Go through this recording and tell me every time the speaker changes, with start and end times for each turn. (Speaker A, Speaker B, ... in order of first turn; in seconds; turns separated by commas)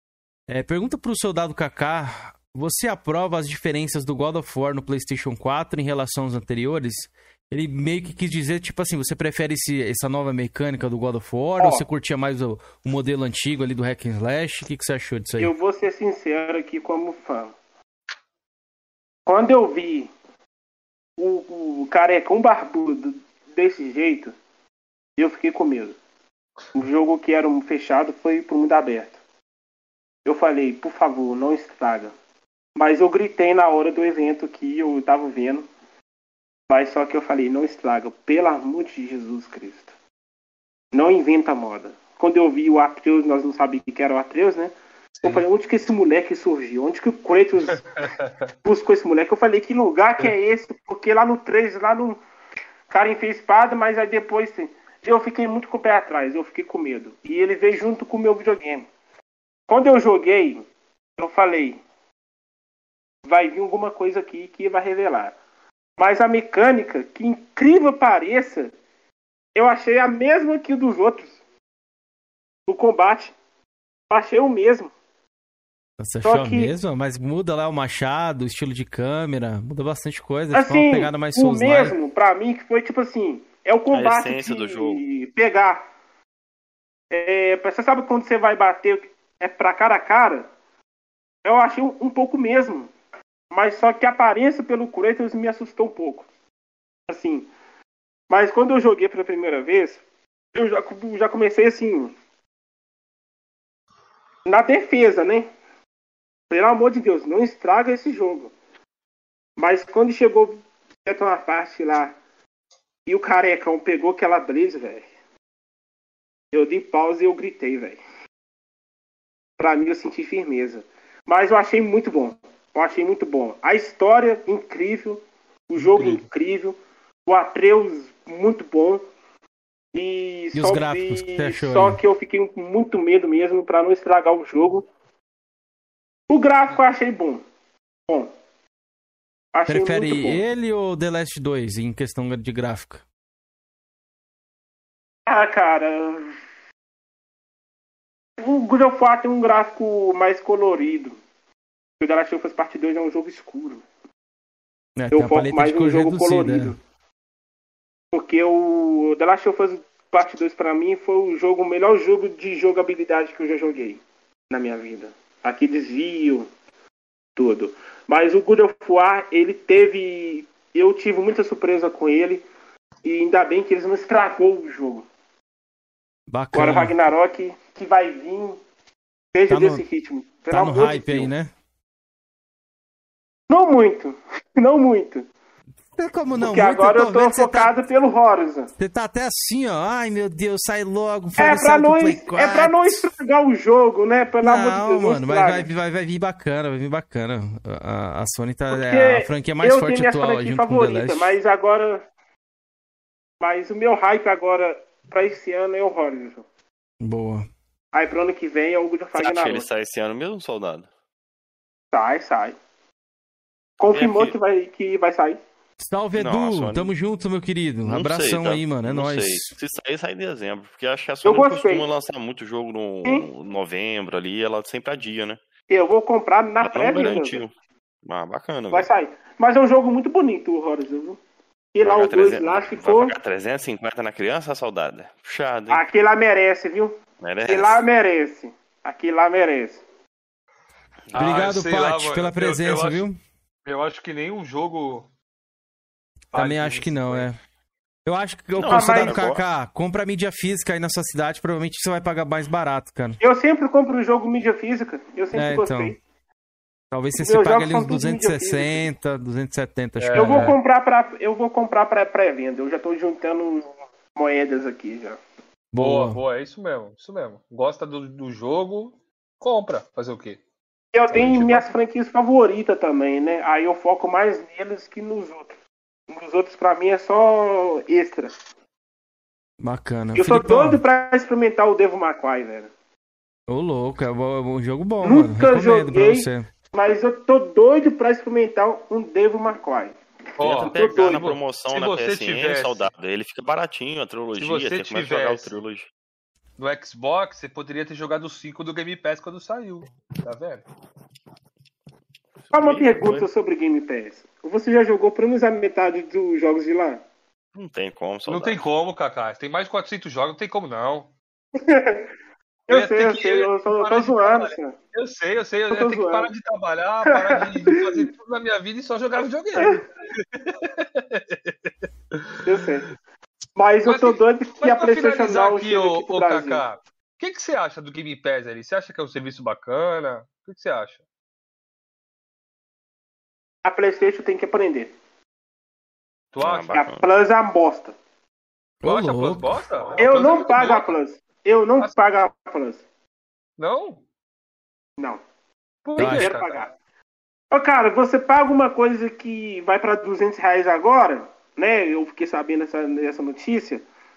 Speaker A: 0.5-15.5, Speaker B: 15.4-17.5, Speaker B: 19.2-20.1, Speaker B: 21.2-24.3, Speaker B: 25.2-26.0, Speaker B: 26.7-29.2, Speaker B: 30.2-32.1, Speaker B: 32.8-35.7, Speaker B: 36.7-39.9, Speaker B: 40.9-44.7, Speaker C: 45.2-45.4, Speaker B: 45.2-47.9, Speaker B: 48.6-52.2, Speaker B: 52.9-58.9, Speaker B: 59.7-60.6, Speaker B: 61.2-61.8, Speaker B: 63.2-65.3, Speaker B: 66.0-68.7, Speaker B: 69.5-71.4, Speaker B: 72.7-73.3, Speaker B: 74.1-74.9, Speaker A: 76.0-82.0, Speaker B: 76.2-76.7, Speaker B: 80.5-85.8, Speaker D: 83.9-85.0, Speaker B: 87.1-90.5, Speaker B: 91.4-92.9, Speaker B: 93.5-96.3, Speaker B: 97.1-97.5, Speaker B: 98.3-100.0, Speaker B: 100.5-102.1, Speaker B: 104.5-105.5, Speaker B: 106.5-108.5, Speaker B: 109.6-112.1, Speaker B: 113.0-115.0, Speaker B: 116.5-118.0, Speaker B: 119.6-129.0, Speaker C: 125.8-126.2, Speaker B: 129.9-134.9, Speaker A: 130.5-132.0, Speaker B: 136.3-137.4, Speaker B: 139.5-140.4, Speaker A: 139.7-143.0, Speaker B: 145.2-146.3, Speaker B: 148.4-151.2, Speaker B: 152.0-153.8, Speaker A: 155.0-156.8, Speaker B: 155.1-156.8, Speaker B: 158.1-166.5, Speaker B: 167.3-172.4, Speaker B: 173.0-175.1, Speaker A: 176.3-176.9, Speaker B: 176.5-178.6, Speaker B: 179.3-181.3, Speaker A: 179.5-179.8, Speaker A: 180.5-181.5, Speaker B: 183.5-185.2, Speaker A: 185.9-187.7, Speaker B: 186.4-188.7, Speaker A: 188.8-193.1, Speaker B: 191.4-195.7, Speaker A: 194.4-201.4, Speaker B: 198.7-202.0, Speaker B: 203.4-206.4, Speaker A: 207.0-207.4, Speaker B: 207.9-209.6, Speaker D: 209.2-210.9, Speaker B: 211.9-212.6, Speaker B: 213.8-215.4, Speaker D: 213.9-214.3, Speaker A: 215.8-219.5, Speaker D: 216.2-216.9, Speaker D: 217.8-225.4, Speaker B: 221.2-221.9, Speaker B: 225.7-227.4, Speaker D: 226.6-227.5, Speaker D: 228.0-228.8, Speaker B: 228.7-231.2, Speaker B: 231.7-233.1, Speaker D: 231.8-235.8, Speaker B: 235.7-239.8, Speaker D: 237.2-237.8, Speaker D: 241.1-241.5, Speaker C: 241.1-243.0, Speaker A: 241.1-243.2, Speaker C: 243.7-245.1, Speaker A: 246.3-247.3, Speaker C: 246.3-247.3, Speaker A: 248.1-253.2, Speaker D: 248.6-249.4, Speaker B: 248.7-249.2, Speaker B: 253.2-256.0, Speaker A: 255.3-255.9, Speaker A: 256.9-260.5, Speaker B: 257.2-258.9, Speaker C: 260.0-260.6, Speaker B: 260.1-265.2, Speaker A: 265.7-266.2, Speaker C: 265.8-270.4, Speaker B: 270.9-275.5, Speaker C: 271.1-271.7, Speaker B: 276.1-278.3, Speaker A: 279.6-280.8, Speaker B: 280.1-282.7, Speaker A: 283.5-286.5, Speaker B: 285.0-291.3, Speaker C: 290.4-292.9, Speaker D: 290.5-295.9, Speaker C: 294.4-295.5, Speaker C: 296.6-300.6, Speaker D: 302.5-303.3, Speaker B: 302.5-307.0, Speaker D: 307.5-308.6, Speaker C: 308.3-311.1, Speaker B: 311.6-312.1, Speaker B: 312.7-314.7, Speaker C: 312.7-322.4, Speaker B: 315.7-316.3, Speaker B: 317.1-318.1, Speaker B: 322.4-322.9, Speaker B: 323.6-326.6, Speaker C: 323.8-331.0, Speaker B: 333.6-334.9, Speaker C: 336.3-336.8, Speaker D: 336.4-337.0, Speaker B: 336.7-337.9, Speaker A: 338.8-339.6, Speaker C: 338.8-340.9, Speaker B: 340.0-342.8, Speaker C: 343.6-344.0, Speaker C: 345.8-346.5, Speaker A: 346.0-346.3, Speaker B: 346.0-346.7, Speaker B: 347.5-353.8